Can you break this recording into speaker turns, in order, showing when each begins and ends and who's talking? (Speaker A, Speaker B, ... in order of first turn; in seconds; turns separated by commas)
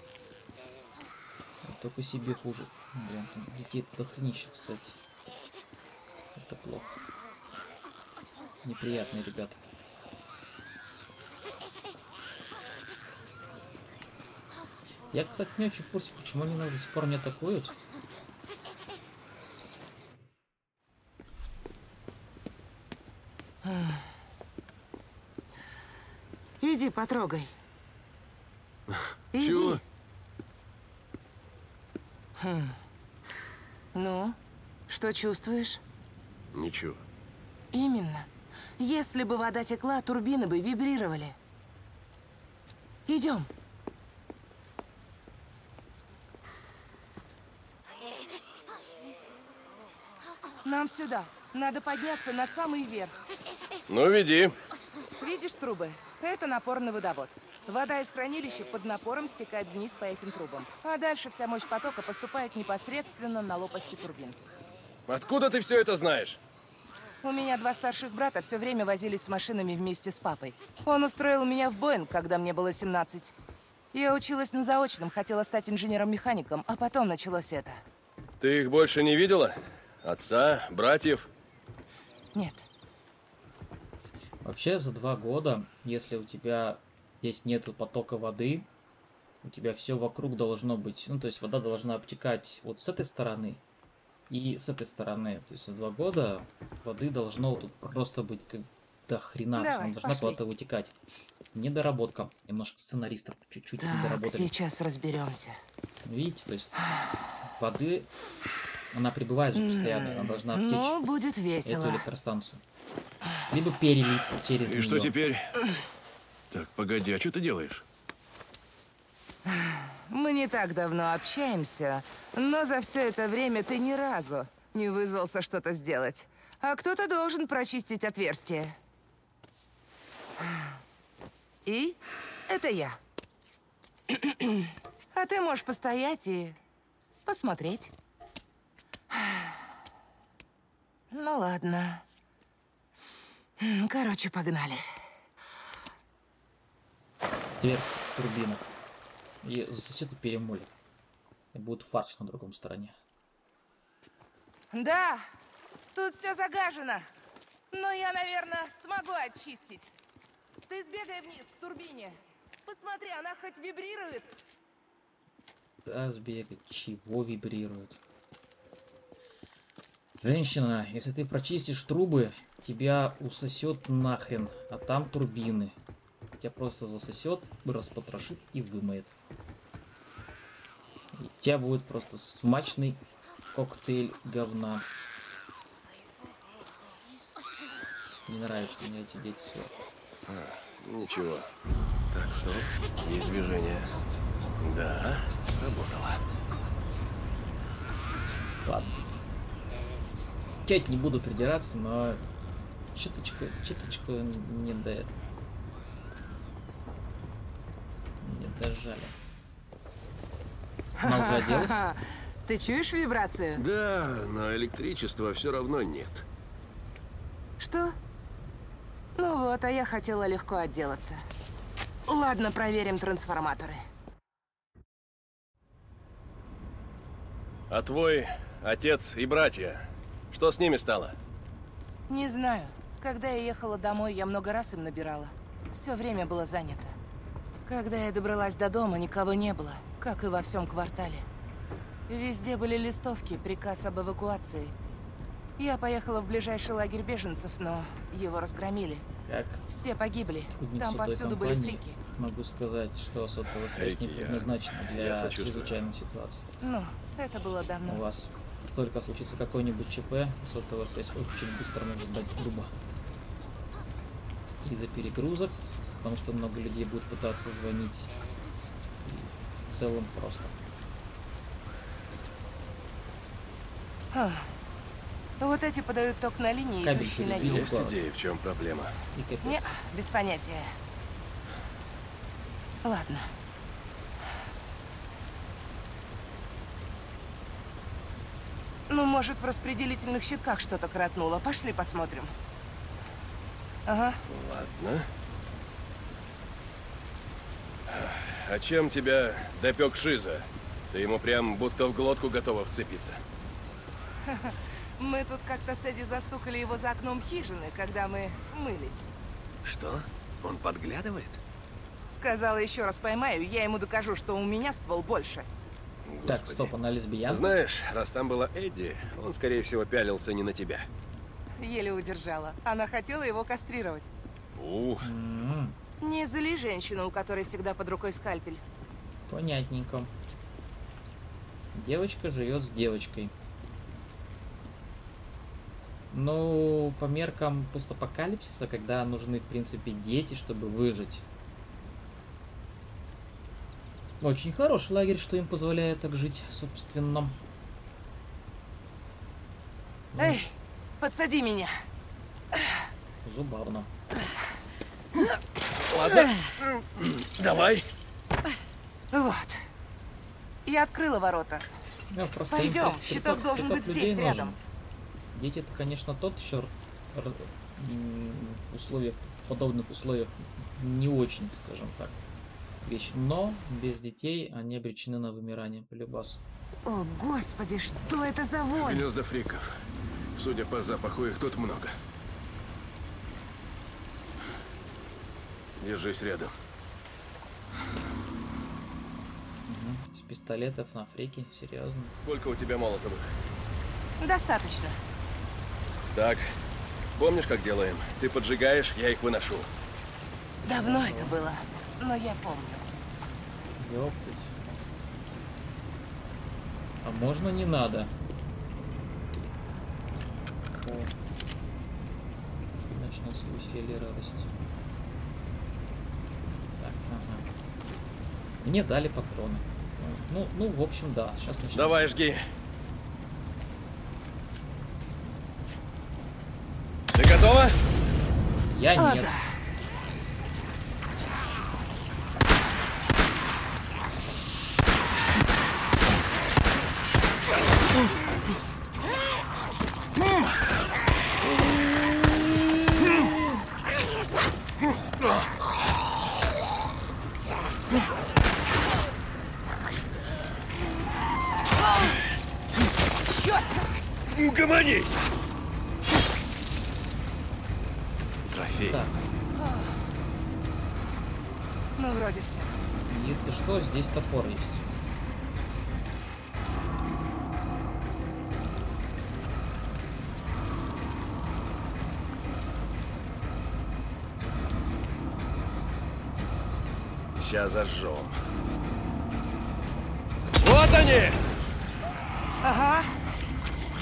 Speaker A: 1.6-5.0, Speaker A: 6.3-7.0, Speaker A: 8.6-9.6, Speaker A: 15.1-17.8, Speaker B: 23.6-24.1, Speaker B: 26.6-27.5, Speaker C: 28.9-29.8, Speaker B: 29.3-29.8, Speaker B: 32.4-32.8, Speaker B: 33.9-34.4, Speaker B: 34.9-35.8, Speaker C: 36.5-37.0, Speaker B: 37.7-38.3, Speaker B: 38.8-41.4, Speaker B: 43.1-43.5, Speaker B: 50.6-53.1, Speaker C: 53.9-54.5, Speaker B: 55.2-64.4, Speaker C: 65.1-66.4, Speaker B: 67.2-73.3, Speaker B: 73.9-77.8, Speaker C: 78.4-81.3, Speaker B: 82.3-82.7, Speaker A: 84.4-88.7, Speaker A: 89.4-93.6, Speaker A: 94.3-100.9, Speaker B: 99.5-100.4, Speaker A: 101.5-104.5, Speaker B: 103.8-105.6, Speaker A: 106.0-108.1, Speaker A: 108.9-111.0, Speaker B: 109.5-112.0, Speaker A: 111.6-112.6, Speaker A: 113.5-115.1, Speaker C: 114.7-115.5, Speaker C: 116.5-117.8, Speaker B: 119.5-128.8, Speaker B: 130.4-130.8, Speaker B: 131.7-133.0, Speaker B: 134.1-136.6, Speaker B: 137.2-137.9, Speaker B: 139.1-139.5, Speaker B: 141.1-142.0, Speaker B: 143.6-144.8, Speaker A: 147.6-148.7, Speaker A: 149.4-150.8, Speaker A: 151.5-152.9, Speaker B: 154.7-155.2, Speaker B: 155.9-157.1, Speaker B: 157.7-159.9, Speaker B: 160.7-164.3, Speaker A: 165.8-168.0, Speaker A: 170.2-175.8, Speaker A: 176.4-179.1, Speaker A: 181.1-183.0, Speaker A: 183.5-184.9, Speaker A: 188.3-189.7, Speaker C: 190.3-191.5, Speaker C: 192.1-193.9, Speaker C: 194.6-196.3, Speaker A: 198.6-199.0, Speaker A: 200.6-202.2, Speaker A: 202.9-205.1, Speaker A: 208.2-209.2, Speaker A: 211.0-211.8, Speaker B: 211.0-213.6, Speaker C: 213.6-216.2, Speaker B: 217.6-217.9, Speaker B: 219.2-221.2, Speaker B: 222.1-223.8, Speaker C: 227.7-231.2, Speaker B: 232.1-237.0, Speaker B: 237.7-241.2, Speaker B: 242.1-244.7, Speaker B: 245.6-249.0, Speaker A: 249.2-249.6, Speaker B: 249.7-252.0, Speaker A: 250.4-256.5, Speaker C: 253.7-255.8, Speaker B: 256.6-258.0, Speaker A: 257.9-262.7, Speaker A: 264.6-268.1, Speaker A: 269.0-270.6, Speaker B: 274.1-274.5, Speaker B: 275.4-277.7, Speaker A: 276.8-278.0, Speaker C: 277.4-278.9, Speaker A: 279.1-279.7, Speaker B: 279.4-280.7, Speaker B: 282.8-283.3, Speaker B: 288.9-292.3, Speaker B: 293.9-294.2, Speaker C: 294.3-295.1, Speaker C: 297.9-303.2, Speaker B: 304.2-309.1, Speaker C: 309.6-311.4, Speaker B: 312.1-315.5, Speaker C: 316.0-316.7, Speaker A: 316.2-317.5, Speaker C: 317.3-320.9, Speaker B: 321.6-324.1, Speaker C: 324.5-325.1, Speaker A: 325.0-325.8, Speaker B: 326.0-328.6, Speaker A: 329.3-330.1, Speaker A: 331.7-333.3, Speaker A: 336.1-341.2, Speaker A: 344.2-347.4, Speaker A: 350.1-350.4, Speaker B: 350.2-351.7, Speaker A: 353.2-353.9, Speaker C: 355.9-357.9, Speaker B: 359.1-359.6, Speaker B: 360.6-361.6, Speaker A: 362.1-364.6, Speaker B: 362.5-364.5, Speaker A: 365.3-372.2, Speaker A: 372.8-376.4, Speaker B: 376.9-379.1, Speaker C: 378.7-379.8, Speaker C: 380.3-381.9, Speaker C: 385.8-386.5, Speaker A: 389.6-392.1, Speaker C: 392.1-393.3, Speaker B: 394.2-395.0, Speaker C: 396.1-396.5, Speaker C: 397.1-399.7, Speaker B: 400.7-402.9, Speaker A: 400.8-401.3, Speaker A: 403.8-404.5, Speaker A: 407.0-408.1, Speaker A: 410.8-411.1, Speaker A: 412.9-414.6, Speaker A: 416.8-417.5, Speaker A: 418.6-422.2, Speaker C: 421.7-422.5, Speaker C: 427.1-427.8, Speaker A: 428.7-429.3, Speaker B: 429.0-429.4, Speaker C: 445.1-445.4, Speaker B: 453.2-453.8, Speaker C: 454.3-455.2, Speaker C: 458.5-459.0, Speaker A: 458.8-459.2, Speaker B: 459.5-460.0, Speaker B: 462.0-462.8, Speaker A: 463.1-464.9, Speaker C: 477.4-478.4, Speaker C: 480.6-481.4, Speaker B: 482.6-483.1